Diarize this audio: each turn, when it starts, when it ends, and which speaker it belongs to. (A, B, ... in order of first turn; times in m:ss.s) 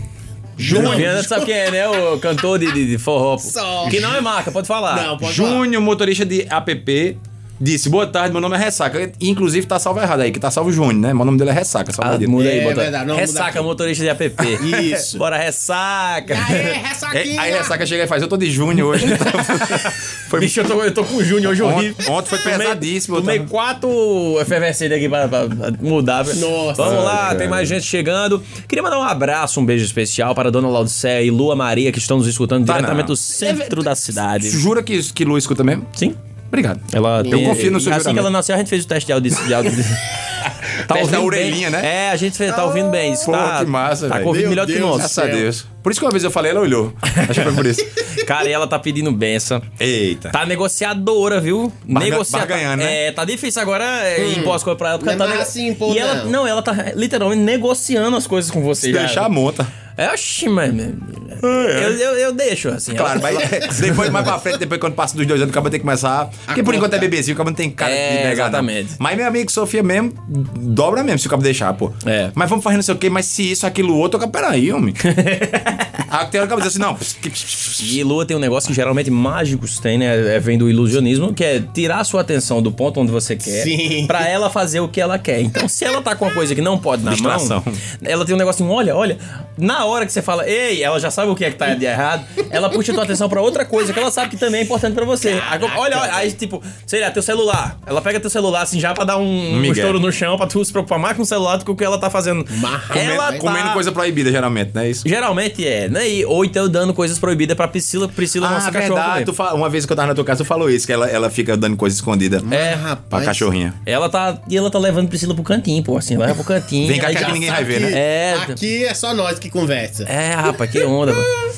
0:00.6-0:01.5 A
0:00.7-0:01.3 B
0:00.7-0:05.1 C
0:03.4-0:04.2 B
0:04.9-0:05.6 B
0:05.2-0:12.3 A
0:12.0-0:16.8 C
0:12.3-0:13.7 B
0:14.6-0:15.2 B
0:14.6-0:14.9 A
0:16.3-0:17.8 B
0:17.1-0:20.7 A
0:19.0-0:34.6 C
0:21.4-0:23.5 A
0:26.3-0:27.3 B
0:26.8-0:27.8 A
0:32.7-0:35.9 A
0:36.5-0:38.3 A
0:36.9-0:40.1 C
0:40.8-0:41.9 A
0:40.9-0:45.2 C
0:42.6-0:42.8 B
0:43.1-0:47.9 A
0:44.2-0:45.5 B
0:48.2-0:49.7 C
0:49.8-0:50.4 A
0:50.3-0:59.3 C
0:51.9-0:53.0 A
0:54.2-0:56.3 B
0:58.8-0:59.7 A
1:00.0-1:04.2 C
1:01.4-1:02.0 A
1:02.9-1:15.0 A
1:06.5-1:07.1 B
1:07.8-1:09.0 C
1:12.0-1:12.3 C
1:15.0-1:15.9 C
1:16.0-1:18.0 A
1:17.8-1:43.8 C
1:23.4-1:24.3 B
1:27.0-1:27.8 A
1:35.2-1:36.3 B
1:39.5-1:40.0 A
1:42.5-1:43.4 B
1:42.9-1:45.0 A
1:45.0-1:49.3 C
1:48.4-1:52.5 A
1:52.4-1:53.4 B
1:52.5-1:52.8 C
1:53.1-1:53.8 A
1:53.9-1:58.6 C
1:56.8-1:58.0 A
1:57.0-2:00.1 B
2:00.1-2:01.4 C